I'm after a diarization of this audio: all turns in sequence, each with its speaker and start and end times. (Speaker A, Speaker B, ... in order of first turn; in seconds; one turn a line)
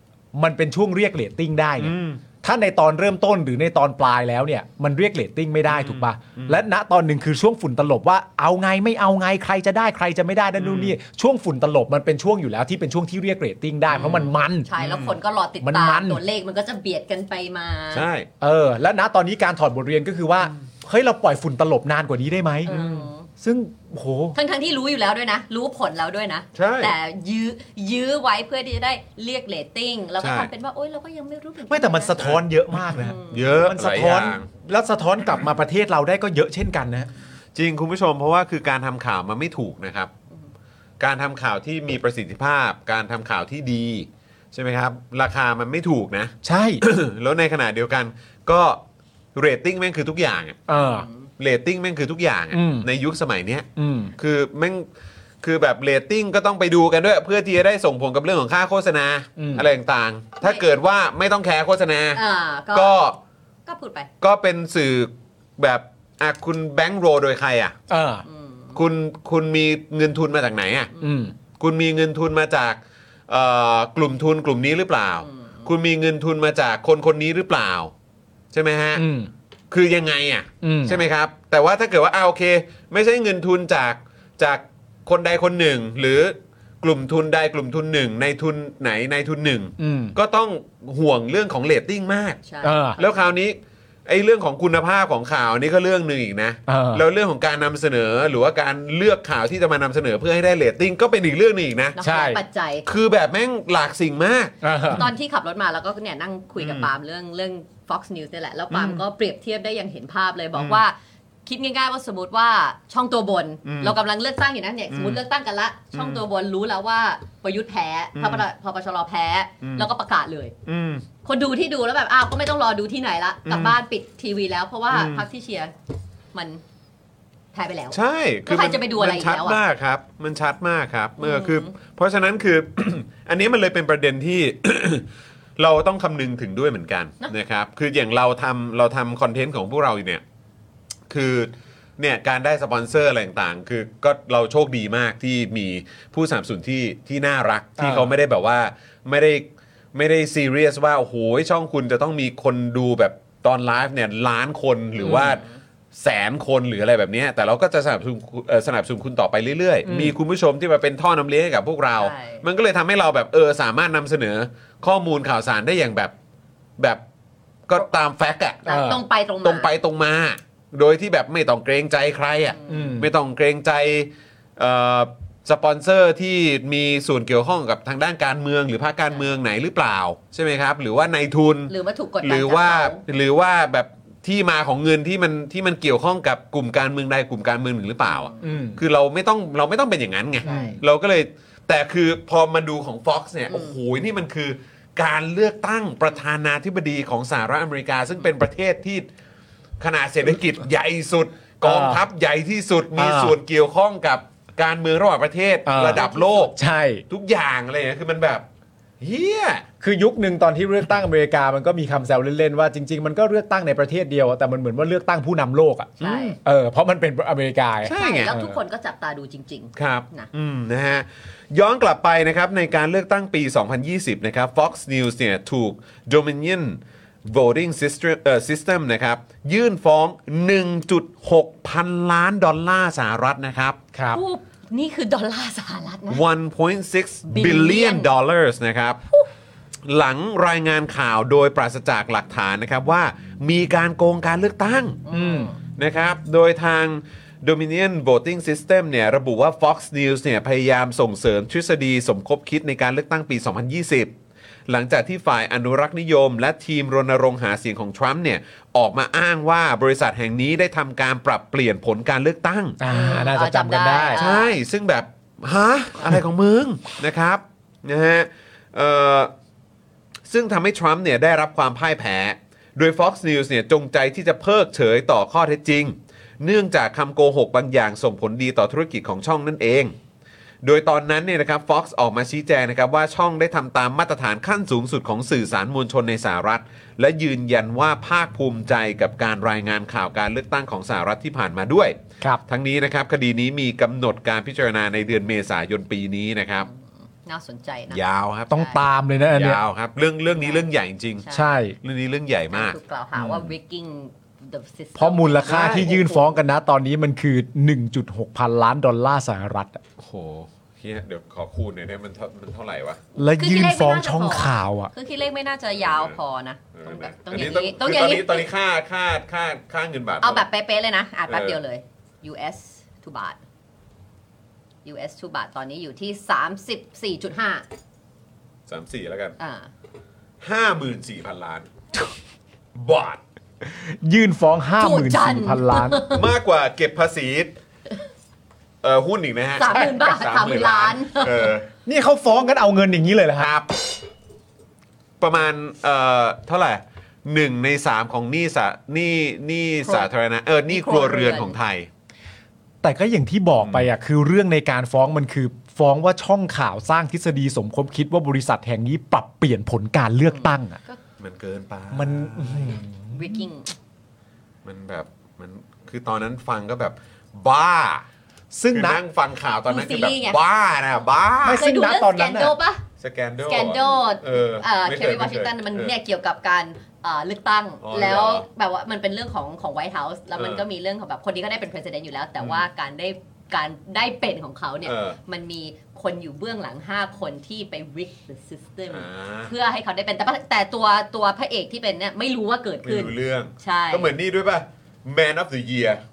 Speaker A: 0.3-14.7
Speaker B: 1.8-2.2
Speaker B: 5.7-6.6
Speaker B: 10.6-11.0
Speaker C: 13.9-18.1
Speaker B: 13.9-14.2
Speaker B: 14.8-15.2
Speaker A: 15.6-16.2
Speaker B: 17.9-18.3
Speaker A: 18.4-24.4
Speaker C: 22.7-23.3
Speaker C: 24.4-32.2
Speaker B: 26.6-26.9
Speaker B: 30.2-30.5
Speaker A: 31.7-37.1
Speaker B: 32.2-34.5
Speaker C: 32.9-33.5
Speaker B: 37.5-40.1
Speaker B: 41.0-48.8
Speaker A: 46.4-46.8
Speaker B: 49.4-50.6
Speaker A: 50.7-51.1
Speaker C: 50.8-51.3
Speaker B: 51.4-53.7
Speaker A: 52.5-52.9
Speaker A: 53.8-54.1
Speaker B: 54.2-54.9
Speaker B: 55.4-62.2
Speaker A: 59.4-59.7
Speaker C: 62.1-63.0
Speaker B: 62.7-63.2
Speaker C: 63.7-64.1
Speaker B: 64.2-67.8
Speaker A: 67.9-68.2
Speaker C: 68.3-68.8
Speaker B: 68.8-70.9
Speaker A: 71.0-71.3
Speaker B: 71.6-77.9
Speaker C: 75.2-75.6
Speaker B: 78.5-79.0
Speaker A: 79.0-79.3
Speaker B: 79.7-92.4
Speaker A: 80.6-81.0
Speaker A: 89.8-90.2
Speaker C: 92.5-93.3
Speaker A: 92.6-93.0
Speaker B: 93.0-102.0
Speaker A: 96.7-97.0
Speaker C: 102.0-102.8
Speaker A: 102.0-102.4
Speaker B: 102.9-104.5
Speaker A: 104.6-105.1
Speaker C: 104.9-111.0
Speaker B: 106.6-106.9
Speaker B: 108.7-109.0
Speaker C: 111.5-120.5
Speaker B: 113.6-114.0
Speaker B: 114.9-115.2
Speaker B: 115.9-116.2
Speaker B: 118.2-118.5
Speaker B: 119.6-119.9
Speaker B: 120.7-121.0
Speaker C: 121.2-125.7
Speaker B: 123.5-123.8
Speaker B: 124.9-125.2
Speaker C: 126.3-126.6
Speaker C: 127.5-129.6
Speaker B: 127.9-135.1
Speaker C: 131.2-131.7
Speaker B: 135.6-140.2
Speaker B: 141.1-155.4
Speaker A: 147.8-148.2
Speaker C: 155.0-155.6
Speaker B: 155.9-166.1
Speaker A: 159.8-160.2
Speaker C: 162.0-162.4
Speaker B: 167.7-168.7
Speaker C: 168.7-169.7
Speaker A: 168.7-169.0
Speaker B: 169.4-199.1
Speaker C: 172.5-172.9
Speaker A: 172.7-173.1
Speaker C: 179.1-179.3
Speaker C: 181.7-183.0
Speaker C: 188.1-188.5
Speaker A: 188.4-188.8
Speaker C: 190.4-190.8
Speaker A: 190.4-190.8
Speaker B: 199.8-206.6
Speaker A: 201.6-202.0
Speaker A: 203.0-203.4
Speaker A: 205.7-207.1
Speaker C: 205.9-206.5
Speaker B: 207.1-208.5
Speaker B: 209.0-209.7
Speaker A: 209.8-218.6
Speaker B: 216.0-216.4
Speaker C: 216.0-216.4
Speaker B: 217.8-218.4
Speaker C: 217.9-220.3
Speaker B: 219.8-233.8
Speaker A: 233.9-234.2
Speaker C: 234.1-236.2
Speaker B: 236.1-239.0
Speaker C: 237.3-238.1
Speaker B: 239.9-245.0
Speaker C: 245.1-245.6
Speaker A: 245.1-245.5
Speaker B: 245.8-254.1
Speaker B: 254.7-262.8
Speaker A: 262.8-264.3
Speaker C: 262.9-264.6
Speaker B: 264.2-269.3
Speaker B: 270.3-280.0
Speaker B: 280.6-296.7
Speaker C: 296.6-298.8
Speaker B: 297.9-298.6
Speaker A: 298.5-299.6
Speaker B: 299.3-301.2
Speaker C: 300.3-300.7
Speaker C: 301.2-301.6
Speaker A: 301.3-301.8
Speaker B: 301.8-303.4
Speaker C: 302.5-306.4
Speaker A: 305.0-309.8
Speaker B: 305.5-305.9
Speaker B: 310.0-313.0
Speaker A: 313.2-314.9
Speaker C: 313.4-318.5
Speaker B: 315.8-316.2
Speaker B: 316.8-320.4
Speaker C: 320.2-323.4
Speaker B: 321.3-321.6
Speaker C: 324.9-327.6
Speaker B: 328.7-329.4
Speaker C: 329.4-329.7
Speaker B: 330.4-331.7
Speaker B: 332.8-333.2
Speaker A: 333.7-336.1
Speaker C: 334.8-336.3
Speaker B: 336.1-337.6
Speaker B: 338.8-341.7
Speaker C: 339.6-341.5
Speaker A: 341.9-343.5
Speaker B: 343.4-343.8
Speaker B: 345.2-351.9
Speaker C: 350.7-351.6
Speaker A: 352.8-360.8
Speaker B: 353.6-353.9
Speaker C: 360.3-361.0
Speaker B: 361.2-362.8
Speaker A: 361.9-363.4
Speaker C: 363.1-363.7
Speaker B: 364.6-368.1
Speaker A: 368.5-369.0
Speaker B: 368.7-371.6
Speaker C: 369.7-370.4
Speaker A: 371.4-372.6
Speaker C: 371.5-372.8
Speaker B: 373.0-375.9
Speaker C: 373.4-394.1
Speaker B: 377.8-378.5
Speaker B: 380.4-380.6
Speaker B: 382.4-382.7
Speaker B: 384.9-385.2
Speaker B: 388.9-389.5
Speaker B: 392.8-396.0